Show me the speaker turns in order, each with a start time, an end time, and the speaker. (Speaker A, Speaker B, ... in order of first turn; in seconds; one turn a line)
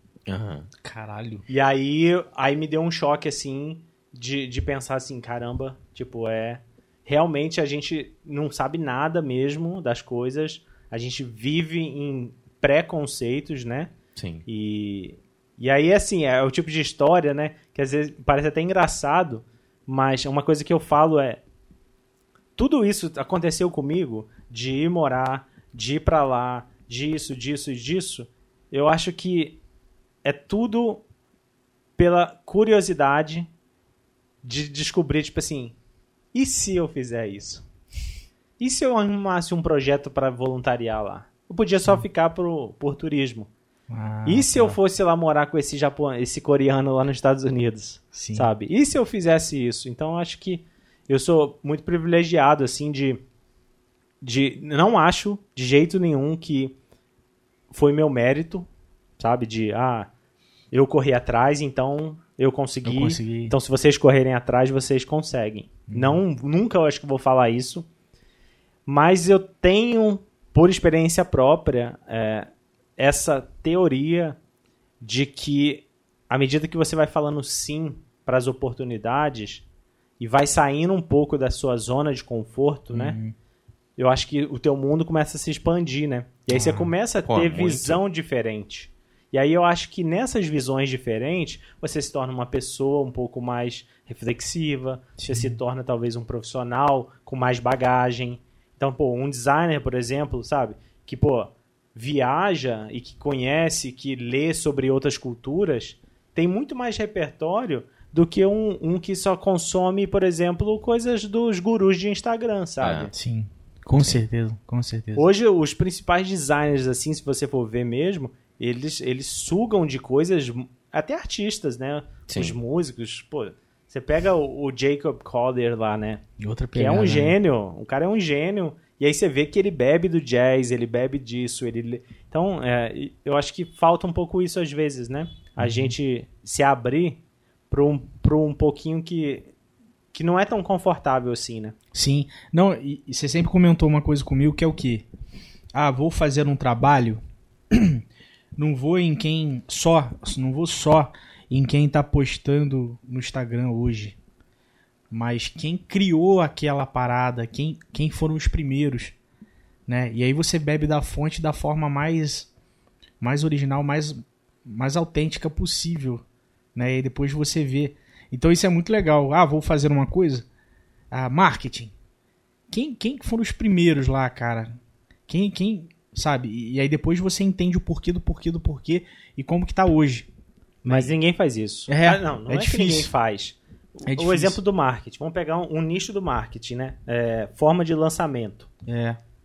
Speaker A: 0.3-0.7
Speaker B: 0.8-1.4
Speaker C: 1.5-13.9
Speaker A: 14.2-14.4
Speaker C: 14.4-21.4
Speaker C: 22.6-29.6
Speaker C: 30.2-31.0
Speaker C: 32.0-33.5
Speaker C: 34.4-35.8
Speaker C: 36.3-37.6
Speaker C: 38.6-43.5
Speaker B: 43.9-44.8
Speaker C: 44.2-53.2
Speaker B: 48.1-48.5
Speaker C: 54.2-56.7
Speaker C: 57.7-58.7
Speaker C: 59.2-60.1
Speaker C: 60.7-67.9
Speaker B: 62.8-63.5
Speaker B: 65.9-66.2
Speaker C: 68.8-74.3
Speaker C: 75.0-79.6
Speaker C: 80.2-83.2
Speaker B: 82.9-83.3
Speaker C: 84.0-113.1
Speaker B: 86.5-86.9
Speaker A: 87.2-88.0
Speaker B: 95.2-95.5
Speaker A: 112.8-113.1
Speaker B: 113.1-115.2
Speaker C: 115.2-126.2
Speaker A: 122.3-122.5
Speaker B: 126.4-127.3
Speaker C: 126.8-139.5
Speaker B: 135.6-135.9
Speaker C: 140.1-141.7
Speaker B: 141.9-145.1
Speaker B: 145.7-148.0
Speaker B: 148.6-154.2
Speaker B: 155.1-159.1
Speaker B: 159.9-162.5
Speaker B: 163.2-166.2
Speaker B: 166.7-170.4
Speaker B: 171.1-171.9
Speaker B: 172.7-174.8
Speaker B: 175.3-180.3
Speaker C: 180.8-188.7
Speaker B: 180.8-181.1
Speaker B: 181.9-183.1
Speaker B: 184.1-184.6
Speaker B: 188.8-189.2